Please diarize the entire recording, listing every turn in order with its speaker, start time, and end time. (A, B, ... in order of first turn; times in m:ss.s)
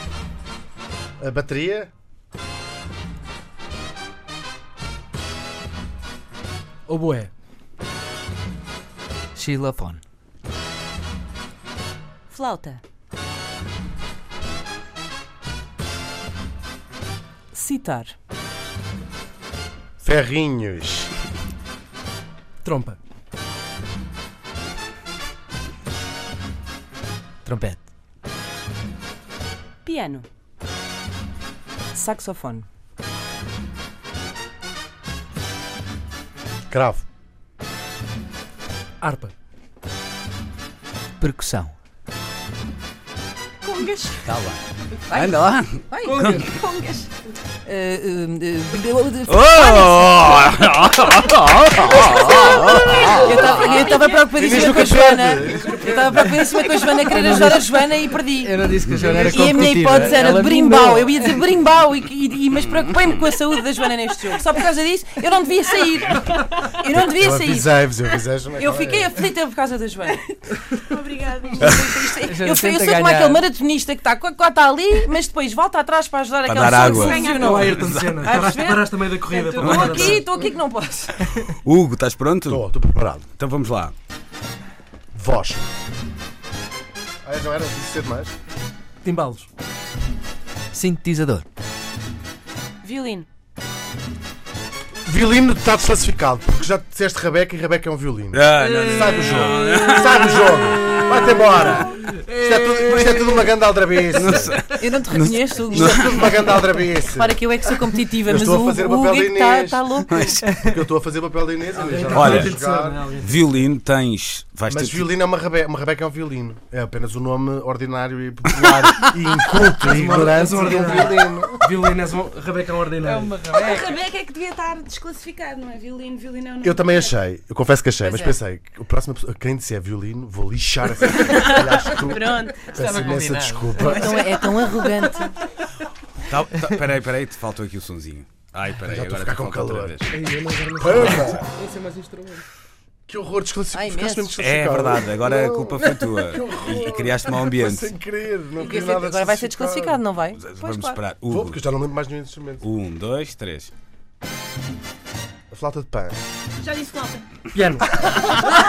0:01.2-0:01.9 A
0:06.8-0:07.3 B
0:09.4-0:10.0 C
0:12.3-0:12.8 D
0:17.5-0:18.1 E
0:20.0-0:21.1 A
0:22.6-0:23.0 B
0:27.4-0:27.8 C
0:29.8-0:30.2 D
0:31.9-0:32.6 E
0:36.7-0:37.0 A
0:39.0-0:39.3 B
0:41.2-0:41.7 C
0:43.6-0:44.2 D
0:44.2-0:46.5 F
0:44.9-0:46.3 E
0:46.0-0:46.6 B
0:46.3-0:47.0 D
0:47.6-0:50.2 E
0:49.3-0:54.0 F
0:52.2-0:54.6 D
0:52.3-1:07.7 E
0:54.1-0:56.4 A
0:57.1-1:01.5 C
0:58.8-0:59.4 F
0:59.0-1:00.2 B
1:06.9-1:09.2 A
1:08.6-1:10.3 E
1:10.8-1:12.0 D
1:11.6-1:11.9 F
1:11.6-1:21.2 E
1:11.7-1:13.5 C
1:16.4-1:18.0 F
1:16.6-1:17.8 D
1:17.2-1:20.4 B
1:19.6-1:20.2 F
1:21.3-1:22.7 F
1:22.5-1:23.3 A
1:23.3-1:23.9 F
1:25.1-1:25.6 A
1:27.2-1:28.3 A
1:29.0-1:29.5 B
1:30.7-1:31.4 C
1:32.8-1:33.3 D
1:35.0-1:44.6 A
1:38.3-1:40.7 F
1:42.0-1:43.4 B
1:44.2-1:46.2 F
1:44.8-1:50.3 E
1:45.7-1:47.4 A
1:48.2-1:49.9 A
1:50.1-1:50.5 F
1:50.5-1:53.0 A
1:51.7-1:53.4 B
1:52.1-1:52.6 F
1:53.2-1:55.1 F
1:54.7-2:01.6 A
1:59.8-2:03.4 B
2:03.0-2:04.0 C
2:03.5-2:07.1 D
2:06.6-2:14.3 A
2:08.0-2:08.4 E
2:11.5-2:13.1 D
2:12.8-2:14.0 C
2:13.8-2:15.4 E
2:16.2-2:20.2 F
2:18.8-2:20.1 A
2:20.1-2:22.4 B
2:20.8-2:21.4 A
2:23.1-2:30.0 A
2:23.7-2:24.3 E
2:24.4-2:27.9 F
2:28.6-2:31.0 E
2:30.4-2:31.6 F
2:31.3-2:32.6 A
2:32.6-2:33.7 F
2:35.5-2:36.2 A
2:36.6-2:37.2 D
2:37.5-2:37.9 B